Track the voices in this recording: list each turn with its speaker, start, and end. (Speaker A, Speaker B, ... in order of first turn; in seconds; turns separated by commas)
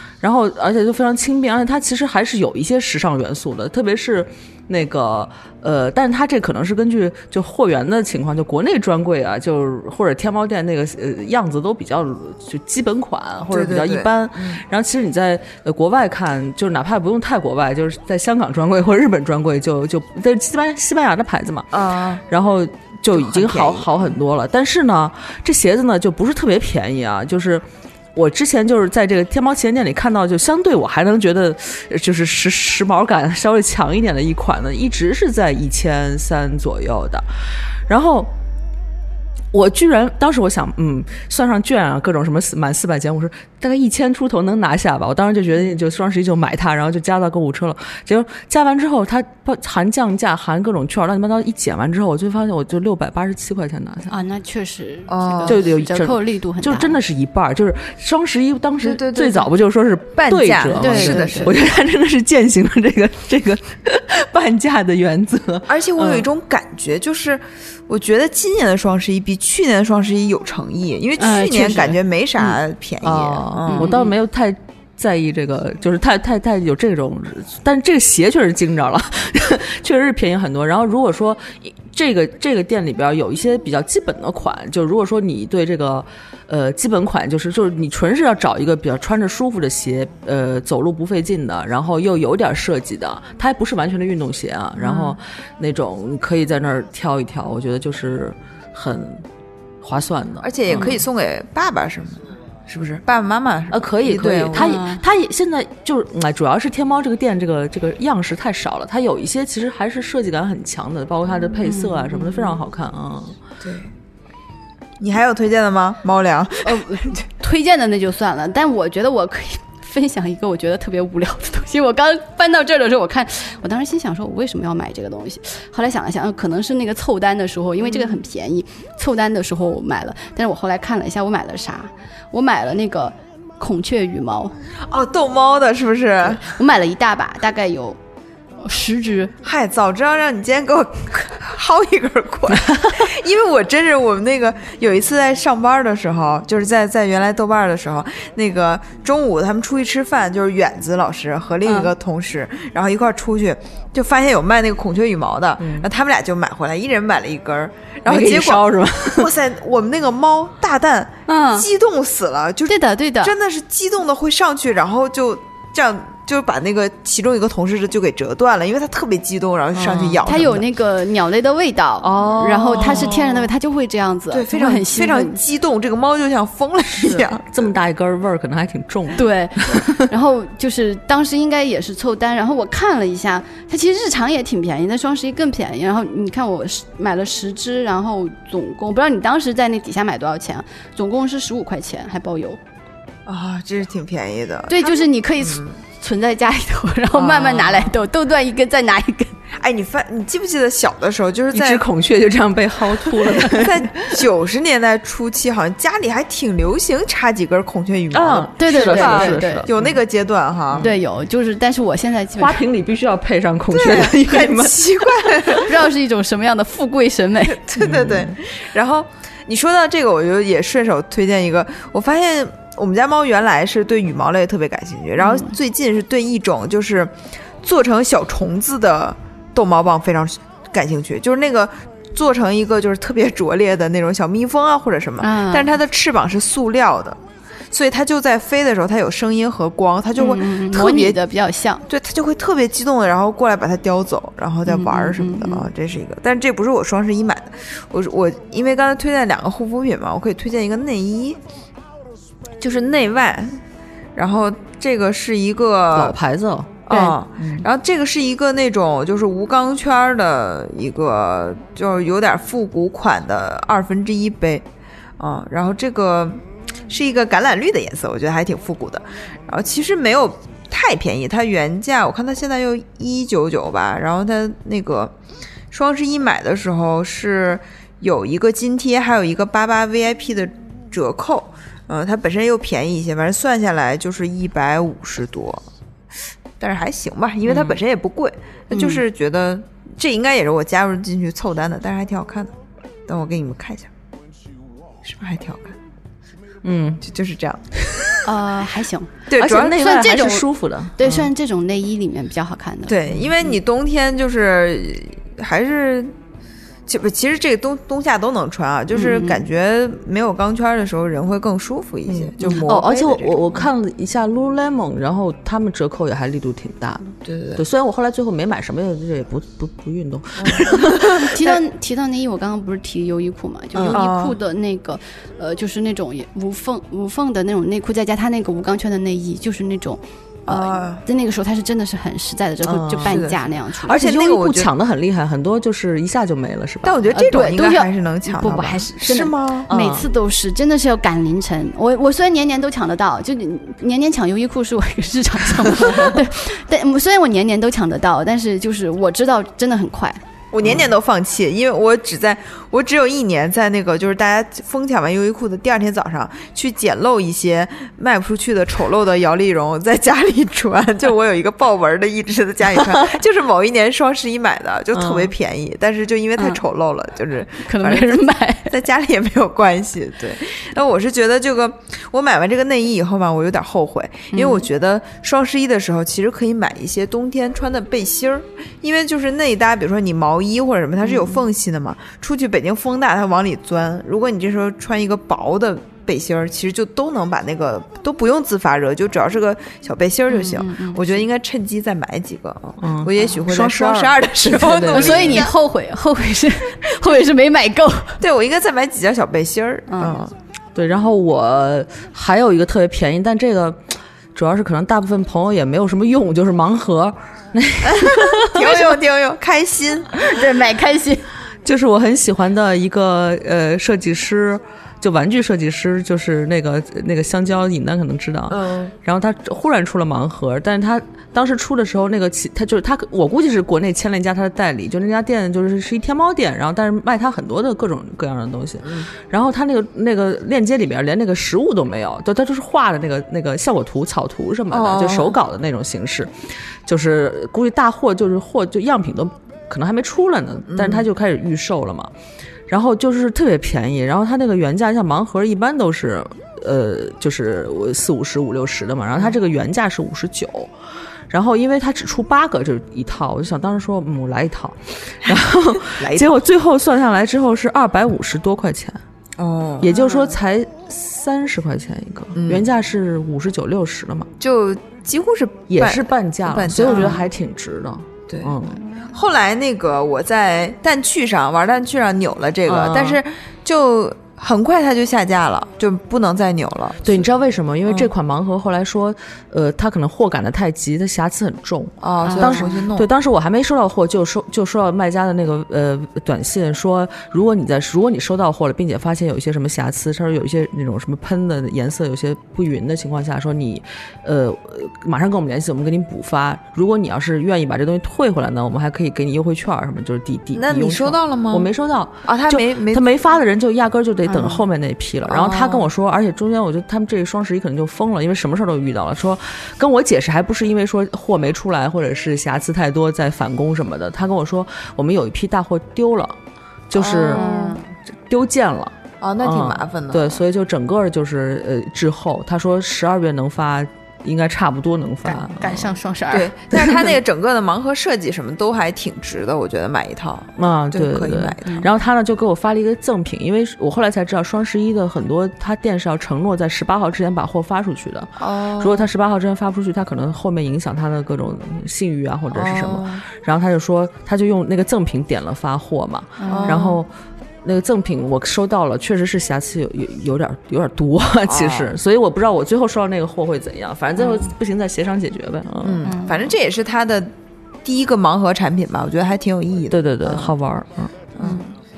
Speaker A: 0.2-21.8, Speaker B: 13.5-14.6, Speaker B: 21.7-22.2, Speaker A: 22.3-37.3, Speaker B: 23.1-24.2, Speaker A: 37.9-38.3, Speaker A: 39.5-54.1, Speaker C: 54.1-57.0, Speaker B: 55.1-55.6, Speaker A: 55.5-66.3, Speaker B: 58.8-59.5, Speaker B: 60.1-61.6, Speaker C: 60.8-61.5, Speaker B: 65.7-74.0, Speaker C: 71.2-72.0, Speaker A: 72.4-99.2, Speaker C: 73.7-74.1, Speaker B: 94.8-95.2, Speaker A: 99.8-101.0, Speaker B: 100.4-104.8, Speaker A: 103.7-113.4, Speaker C: 104.5-105.0, Speaker C: 111.6-112.5, Speaker B: 113.6-113.9, Speaker B: 115.0-117.1, Speaker C: 116.6-134.5, Speaker B: 134.9-136.5, Speaker C: 136.3-138.0, Speaker C: 138.6-139.3, Speaker B: 139.4-170.6, Speaker C: 151.6-151.9, Speaker A: 155.6-155.9, Speaker A: 158.1-159.3, Speaker C: 161.3-161.7, Speaker C: 162.7-163.3, Speaker A: 169.8-170.3, Speaker C: 170.2-175.4, Speaker A: 172.0-173.2, Speaker B: 172.8-173.5, Speaker B: 174.3-177.7, Speaker A: 177.0-179.9, Speaker C: 179.2-192.6, Speaker B: 193.3-195.8, Speaker C: 194.7-199.4, Speaker B: 197.1-198.0, Speaker B: 199.5-201.8, Speaker A: 201.5-204.1, Speaker B: 203.2-210.9, Speaker A: 208.1-209.9, Speaker C: 208.6-209.7, Speaker C: 210.8-212.6, Speaker A: 212.4-215.4, Speaker B: 213.7-215.8, Speaker C: 215.5-217.7, Speaker B: 217.4-237.2, Speaker A: 217.8-218.3, Speaker C: 225.2-225.5, Speaker C: 235.2-235.7, Speaker B: 237.7-241.2, Speaker C: 240.2-241.8, Speaker B: 241.9-251.4, Speaker C: 244.7-245.7, Speaker B: 252.6-253.6, Speaker B: 254.1-256.2, Speaker A: 255.9-256.8, Speaker B: 256.9-264.6, Speaker C: 256.9-257.2, Speaker B: 265.2-275.1, Speaker B: 275.7-285.6, Speaker B: 286.6-292.5, Speaker A: 287.5-287.8, Speaker B: 293.1-293.9, Speaker B: 295.0-295.8, Speaker A: 296.6-297.0, Speaker B: 297.0-297.6, Speaker C: 298.2-303.2, Speaker B: 299.3-299.9, Speaker A: 299.4-301.3, Speaker B: 302.9-306.1, Speaker B: 306.9-313.7, Speaker C: 308.9-309.4, Speaker A: 312.1-321.4, Speaker B: 317.2-317.6, Speaker B: 320.4-321.4, Speaker C: 321.0-334.0, Speaker B: 323.9-324.4, Speaker B: 330.5-331.0, Speaker A: 332.6-333.3, Speaker B: 333.1-334.7, Speaker A: 333.9-337.1, Speaker B: 336.8-339.7, Speaker C: 337.1-350.2, Speaker A: 339.7-340.1, Speaker B: 350.5-395.5, Speaker A: 364.9-365.3, Speaker C: 367.6-368.8, Speaker C: 374.3-374.6, Speaker C: 381.0-381.4, Speaker C: 390.3-391.2, Speaker A: 392.8-395.5, Speaker C: 394.9-398.2, Speaker B: 398.2-400.3, Speaker C: 399.9-400.2, Speaker A: 400.8-403.8, Speaker A: 404.4-408.9, Speaker B: 407.8-410.2, Speaker C: 410.2-411.3, Speaker A: 411.6-436.3, Speaker B: 418.5-418.9, Speaker B: 428.8-429.1, Speaker B: 434.7-435.4, Speaker A: 436.9-442.1, Speaker B: 440.7-441.1, Speaker A: 442.7-450.7, Speaker A: 451.3-459.0, Speaker B: 456.0-456.3, Speaker B: 459.4-460.4, Speaker A: 459.8-464.3, Speaker B: 462.4-462.7, Speaker B: 464.4-467.3, Speaker A: 465.7-468.8, Speaker B: 468.3-477.3, Speaker A: 472.6-473.2, Speaker A: 477.0-516.4, Speaker B: 482.0-483.1, Speaker C: 482.2-482.8, Speaker B: 500.6-501.7, Speaker B: 502.2-503.0, Speaker B: 504.3-504.6, Speaker B: 505.2-505.9, Speaker A: 516.9-517.5, Speaker B: 516.9-517.8, Speaker C: 517.3-517.9, Speaker A: 518.3-525.9, Speaker B: 519.2-520.4, Speaker C: 525.5-526.8, Speaker B: 526.3-531.9, Speaker A: 530.6-547.1, Speaker B: 538.4-539.1, Speaker B: 542.5-543.2, Speaker C: 546.4-546.9, Speaker B: 546.5-547.0, Speaker A: 547.6-556.1, Speaker B: 551.5-551.9, Speaker C: 554.2-554.5, Speaker B: 555.8-557.3, Speaker C: 556.0-556.5, Speaker B: 557.8-560.6, Speaker A: 559.9-561.1, Speaker B: 561.4-561.6, Speaker C: 561.4-561.7